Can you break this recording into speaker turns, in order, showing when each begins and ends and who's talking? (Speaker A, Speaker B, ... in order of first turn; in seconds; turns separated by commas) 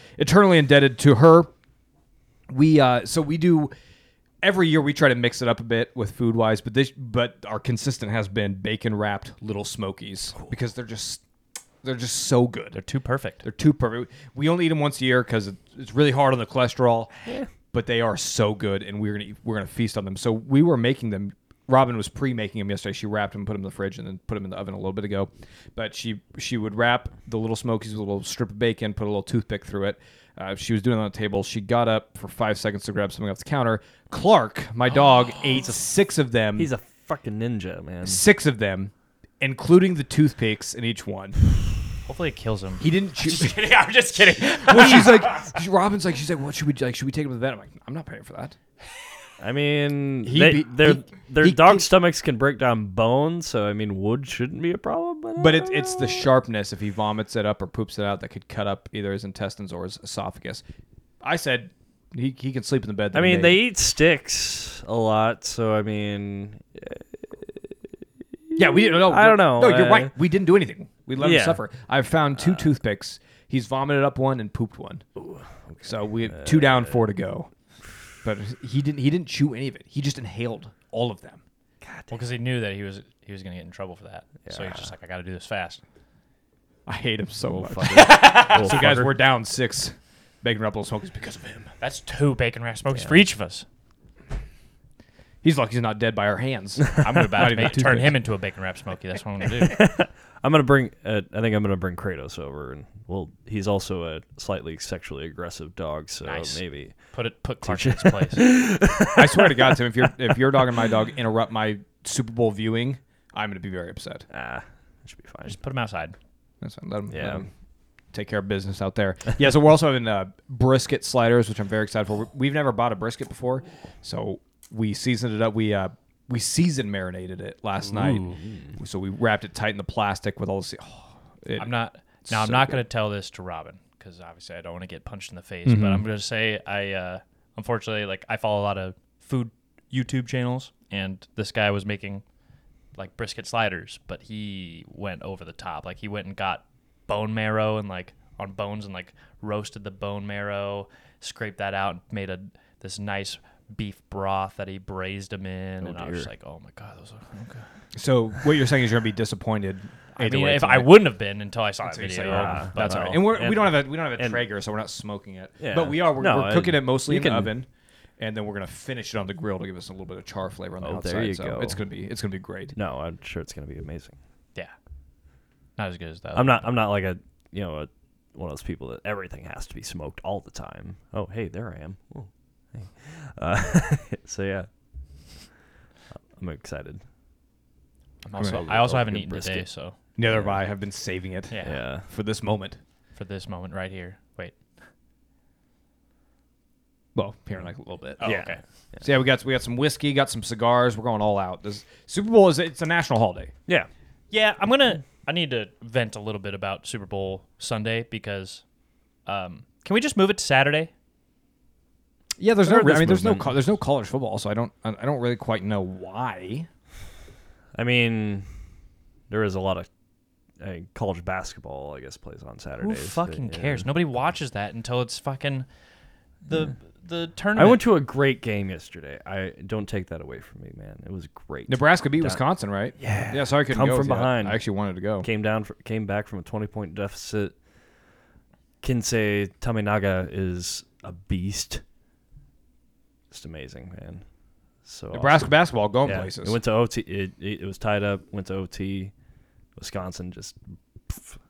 Speaker A: 0.2-1.5, Speaker A: 2.5-3.7, Speaker A: 4.4-11.2, Speaker A: 11.8-12.8, Speaker B: 12.7-13.4, Speaker A: 13.4-36.7, Speaker C: 36.6-38.2, Speaker A: 38.0-41.4, Speaker B: 42.1-45.5, Speaker A: 42.8-43.5, Speaker A: 44.6-48.6, Speaker C: 49.4-56.3, Speaker A: 50.2-51.9, Speaker A: 55.4-60.6, Speaker A: 61.2-63.6, Speaker C: 63.1-67.8, Speaker C: 68.5-70.1, Speaker A: 68.6-75.0, Speaker C: 71.2-71.6, Speaker C: 75.2-77.0, Speaker A: 75.8-77.5, Speaker A: 78.2-81.4, Speaker C: 81.8-82.2, Speaker B: 82.1-85.8, Speaker C: 84.5-84.9, Speaker A: 86.9-91.7, Speaker C: 87.5-89.1, Speaker B: 87.9-88.7, Speaker B: 91.8-93.7, Speaker A: 95.4-98.2, Speaker B: 97.0-99.8, Speaker C: 99.6-107.1, Speaker B: 106.2-108.4, Speaker C: 107.6-110.4, Speaker A: 109.1-114.3, Speaker C: 114.3-115.6, Speaker B: 115.5-116.2, Speaker A: 116.6-117.5, Speaker C: 117.1-117.5, Speaker A: 118.1-131.7, Speaker C: 128.0-128.7, Speaker B: 131.6-142.2, Speaker A: 132.3-132.8, Speaker A: 135.7-136.1, Speaker B: 143.0-157.7, Speaker C: 155.8-156.3, Speaker A: 157.9-161.0, Speaker B: 160.2-163.2, Speaker A: 161.8-167.7, Speaker C: 162.2-164.4, Speaker C: 165.6-167.5, Speaker A: 168.2-172.7, Speaker C: 170.8-171.8, Speaker C: 172.8-174.2, Speaker B: 175.8-176.7, Speaker C: 176.3-184.7, Speaker C: 186.4-187.0, Speaker B: 188.2-190.0, Speaker A: 188.4-188.6, Speaker C: 188.5-189.7, Speaker A: 190.2-192.8, Speaker C: 190.3-190.6, Speaker B: 191.5-191.8, Speaker C: 191.6-192.1, Speaker B: 193.2-194.8, Speaker A: 197.2-198.4, Speaker B: 198.2-198.6, Speaker C: 198.2-199.0, Speaker A: 199.0-203.5, Speaker B: 204.3-208.6, Speaker B: 209.3-210.9, Speaker A: 212.4-216.7, Speaker C: 212.6-213.6, Speaker C: 217.8-218.5, Speaker C: 219.3-219.9, Speaker C: 220.6-223.8, Speaker B: 222.8-225.7, Speaker B: 226.4-227.8, Speaker C: 227.6-232.4, Speaker A: 231.7-235.3, Speaker C: 233.0-234.6, Speaker C: 235.2-237.6, Speaker C: 238.8-241.8, Speaker C: 243.3-244.2, Speaker C: 244.8-249.1, Speaker A: 245.1-246.6, Speaker C: 249.8-251.4